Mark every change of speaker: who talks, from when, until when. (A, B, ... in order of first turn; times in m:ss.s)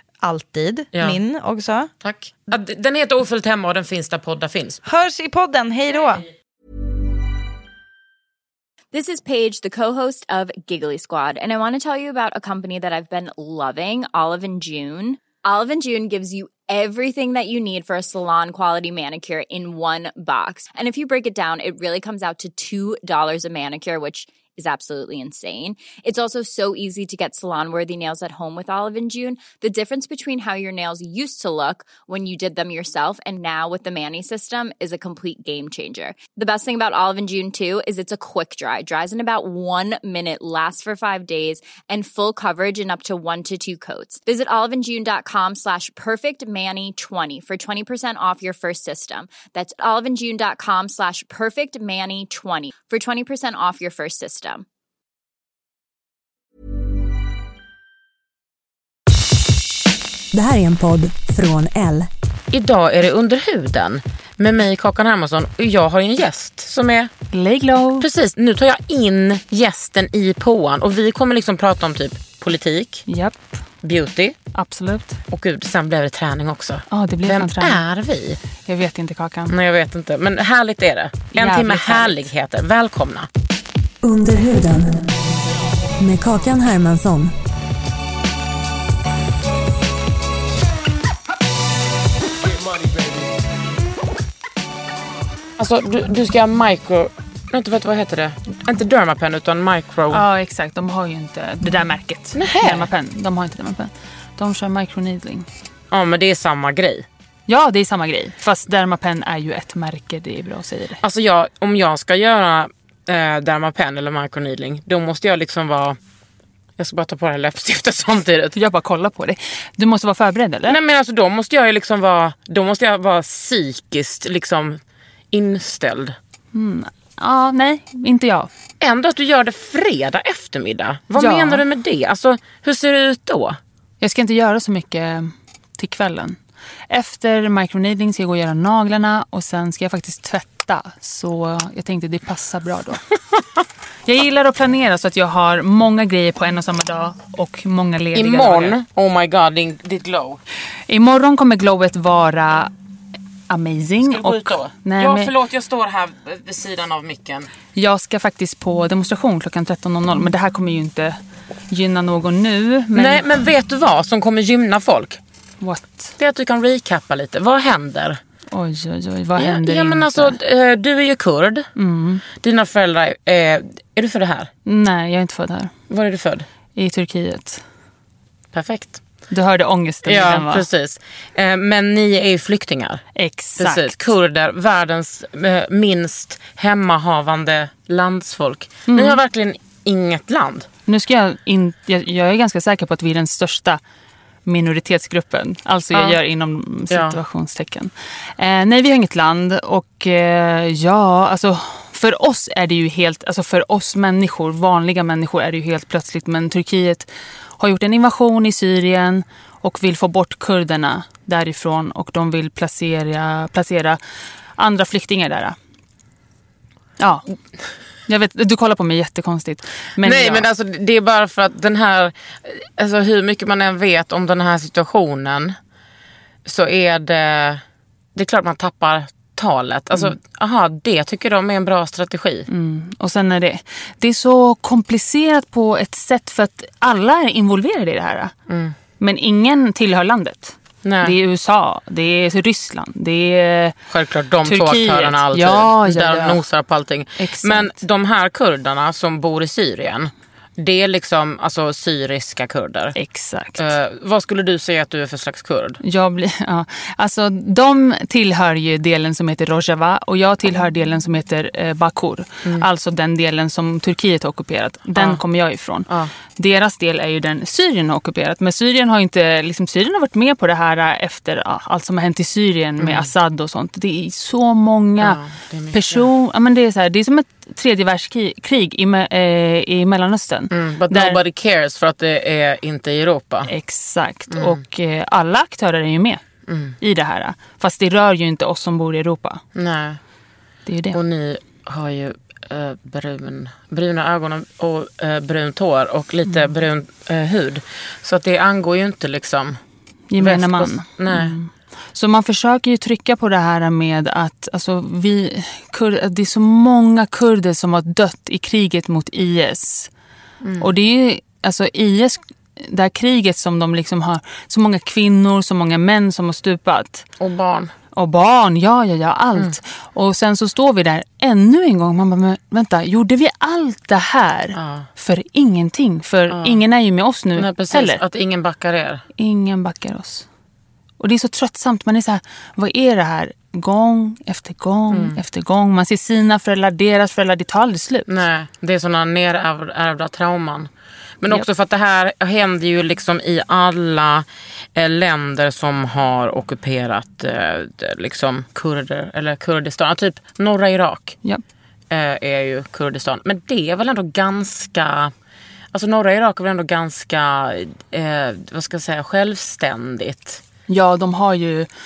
0:00.2-0:01.9 A
0:00.9-0:01.2 B
0:02.0-0:04.8 B
0:04.8-0:06.3 A
0:08.9-0:54.6 C
1:00.3-1:02.1 D
1:02.5-1:07.1 B
1:07.3-1:08.1 E
1:08.0-1:13.1 B
1:13.1-1:13.6 E
1:13.8-1:14.4 B
1:14.5-1:15.2 E
1:15.3-1:18.4 B
1:16.9-1:17.8 E
1:18.6-1:19.6 E
1:19.5-1:23.3 B
1:21.3-1:22.3 E
1:24.0-1:25.1 D
1:26.0-1:27.3 D
1:35.6-1:40.2 B
1:40.1-1:45.5 E
1:42.3-1:42.9 B
1:45.9-1:47.1 B
1:47.5-1:51.0 E
1:51.0-1:56.0 B
1:56.8-1:58.6 B
1:58.6-2:00.8 E
2:00.7-2:06.2 B
2:06.5-2:08.5 E
2:08.8-2:13.6 B
2:11.2-2:11.6 E
2:14.0-2:16.4 E
2:16.9-2:23.0 E
2:24.1-2:28.8 E
2:28.1-2:30.4 B
2:30.9-2:32.7 E
2:33.5-2:35.3 E
2:34.0-2:37.5 B
2:37.8-2:41.2 E
2:41.7-2:43.2 E
2:43.0-2:45.2 B
2:45.6-2:46.2 E
2:46.2-2:48.2 B
2:48.5-2:50.4 E
2:49.4-2:51.7 B
2:51.8-2:52.2 E
2:52.4-2:54.5 B
2:54.7-2:55.7 E
2:55.9-2:56.5 B
2:56.8-2:57.6 E
2:58.5-2:59.0 B
2:59.3-3:00.7 E
3:00.0-3:03.0 B
3:03.2-3:04.0 E
3:03.6-3:10.7 B
3:08.9-3:09.2 E
3:10.9-3:13.8 E
3:14.5-3:27.1 E
3:15.9-3:16.2 B
3:16.9-3:17.2 B
3:27.6-3:34.0 E
3:34.6-3:35.6 E
3:37.0-3:37.2 E
3:38.1-3:40.5 E
3:40.0-3:45.6 B
3:46.4-3:47.6 B
3:48.2-3:52.5 B
3:52.5-3:58.3 E
3:58.5-3:58.8 B
3:59.0-4:03.8 E
4:00.8-4:01.2 B
4:03.9-4:13.0 B
4:04.4-4:06.4 E
4:07.2-4:07.8 E
4:13.0-4:13.7 E
4:13.6-4:15.8 B
4:15.8-4:35.2 E
4:25.0-4:25.2 B
4:32.8-4:33.1 B
4:35.0-4:36.1 B
4:35.7-4:41.2 E
4:40.5-4:43.5 B
4:43.5-4:46.2 E
4:44.3-4:44.6 B
4:46.5-4:46.8 B
4:46.8-4:49.4 E
4:49.6-4:50.0 B
4:50.7-4:51.0 E
4:50.9-4:59.6 B
5:00.1-5:09.9 E
5:00.2-5:01.4 B
5:10.4-5:10.7 B
5:10.6-5:17.1 E
5:17.2-5:17.7 B
5:18.0-5:28.0 E
5:24.5-5:24.9 B
5:26.3-5:26.6 B
5:27.4-5:29.0 B
5:29.2-5:30.3 E
5:31.0-5:38.1 E
5:34.9-5:35.2 B
5:38.1-5:40.7 B
5:41.2-5:51.2 B
5:51.9-5:55.1 B
5:55.7-6:00.4 B
6:00.7-6:01.7 E